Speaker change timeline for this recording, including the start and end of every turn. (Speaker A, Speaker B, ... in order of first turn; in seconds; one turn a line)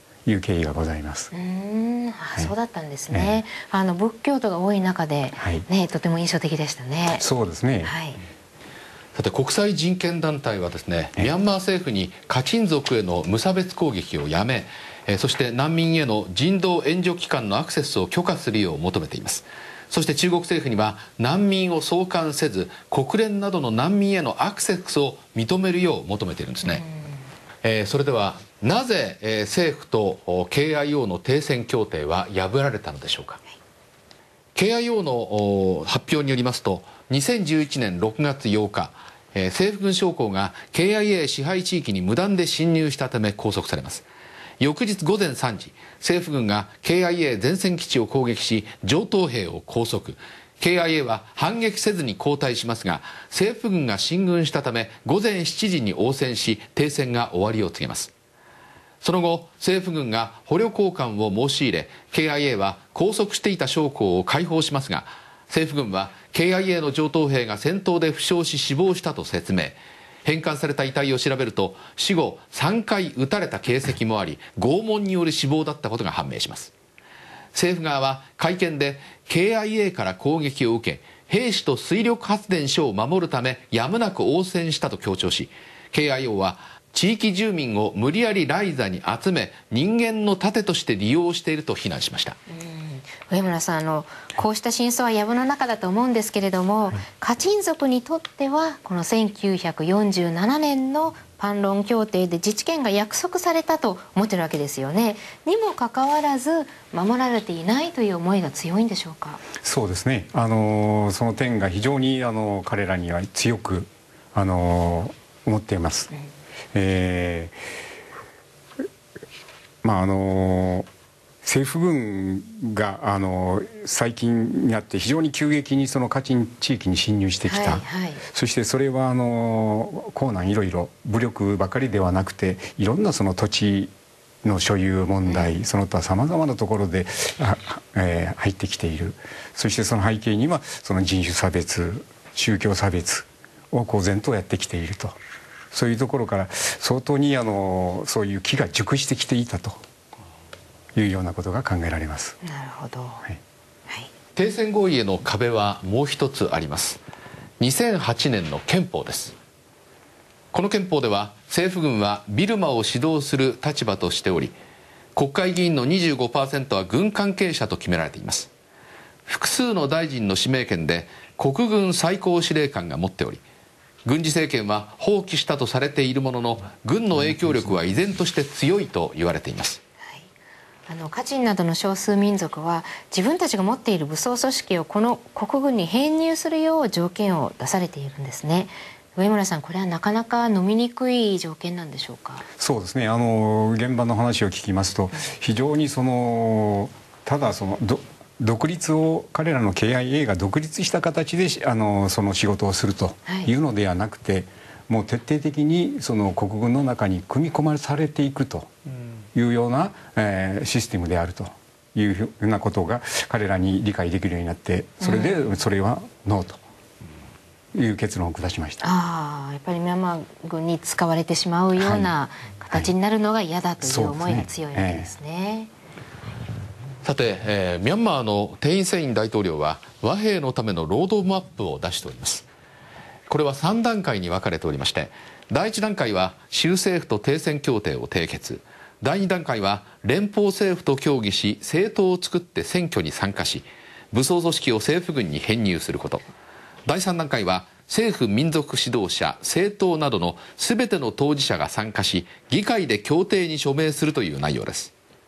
Speaker A: 0.3-1.3
Speaker B: 1.3-7.2
Speaker A: 3.1-3.4
Speaker A: 5.4-5.7
Speaker A: 7.2-8.0
Speaker B: 7.8-8.2
Speaker C: 9.2-26.8
Speaker B: 26.6-27.3
Speaker C: 27.6-33.4
Speaker C: 34.5-44.1
Speaker C: 44.6-58.1
Speaker C: 59.0-76.7
Speaker C: 77.5-92.4
Speaker B: 92.5-109.4
Speaker A: 109.5-116.1
Speaker A: 116.7-117.6
Speaker A: 119.8-120.9
Speaker A: 121.4-133.9
Speaker B: 127.5-128.2
Speaker A: 134.4-145.2
Speaker B: 135.3-135.6
Speaker A: 145.7-149.8
Speaker A: 150.9-152.4
Speaker B: 152.4-153.2
Speaker C: 154.4-157.0
Speaker C: 157.6-159.3
Speaker C: 160.5-164.6
Speaker C: 165.2-168.5
Speaker C: 169.3-173.4
Speaker C: 174.1-179.8
Speaker B: 180.0-180.3
Speaker B: 180.9-192.5
Speaker A: 192.6-208.7
Speaker A: 209.3-216.6
Speaker B: 215.0-215.4
Speaker A: 217.7-218.8
Speaker B: 218.8-225.7
Speaker A: 221.8-222.1
Speaker A: 223.8-225.1
Speaker C: 227.0-232.5
Speaker C: 233.3-246.2
Speaker C: 246.8-254.9